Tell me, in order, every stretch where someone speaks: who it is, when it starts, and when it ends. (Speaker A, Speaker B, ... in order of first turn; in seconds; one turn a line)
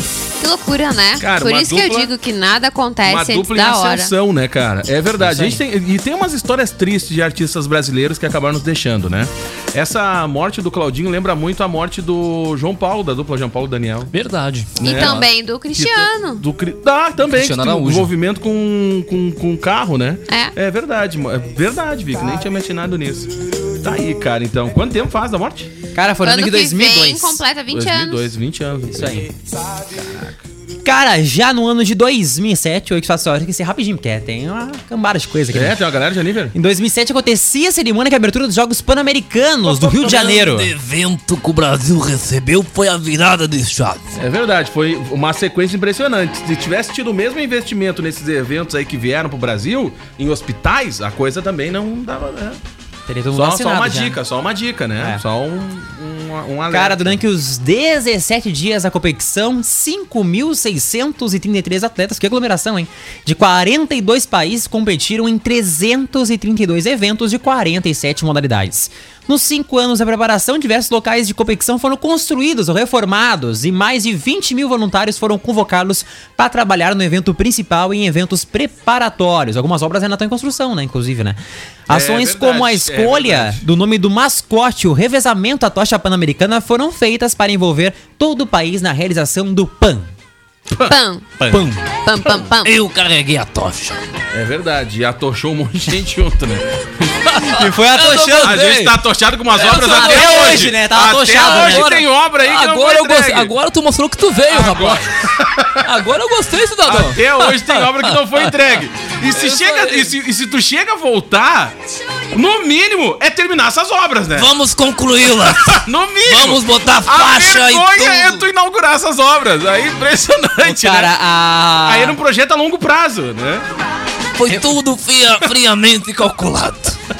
Speaker A: 0.4-4.1
Speaker B: 1.2-2.1
Speaker B: 3.0-14.1
Speaker C: 5.2-5.6
Speaker D: 14.1-15.2
Speaker B: 14.8-25.7
Speaker A: 14.8-16.4
Speaker D: 17.3-18.1
Speaker C: 25.9-27.4
Speaker A: 26.2-28.3
Speaker B: 27.7-29.3
Speaker C: 28.9-29.2
Speaker B: 29.9-30.4
Speaker C: 30.8-35.8
Speaker B: 35.5-36.5
Speaker C: 36.5-40.7
Speaker D: 39.8-44.1
Speaker B: 44.1-52.6
Speaker C: 53.1-54.2
Speaker B: 53.3-57.2
Speaker C: 56.7-90.1
Speaker B: 81.9-83.6
Speaker A: 90.8-91.3
Speaker C: 91.4-91.7
Speaker D: 91.5-92.0
Speaker A: 92.0-92.7
Speaker D: 92.6-94.0
Speaker B: 94.3-97.2
Speaker D: 97.3-99.0
Speaker C: 97.5-98.6
Speaker B: 98.4-103.5
Speaker D: 99.6-100.7
Speaker C: 99.6-101.9
Speaker D: 101.3-105.1
Speaker B: 104.5-105.9
Speaker D: 105.8-110.1
Speaker B: 106.8-111.7
Speaker B: 112.3-114.5
Speaker D: 114.3-118.5
Speaker B: 115.4-121.1
Speaker C: 120.6-122.2
Speaker B: 121.8-123.6
Speaker D: 124.3-127.0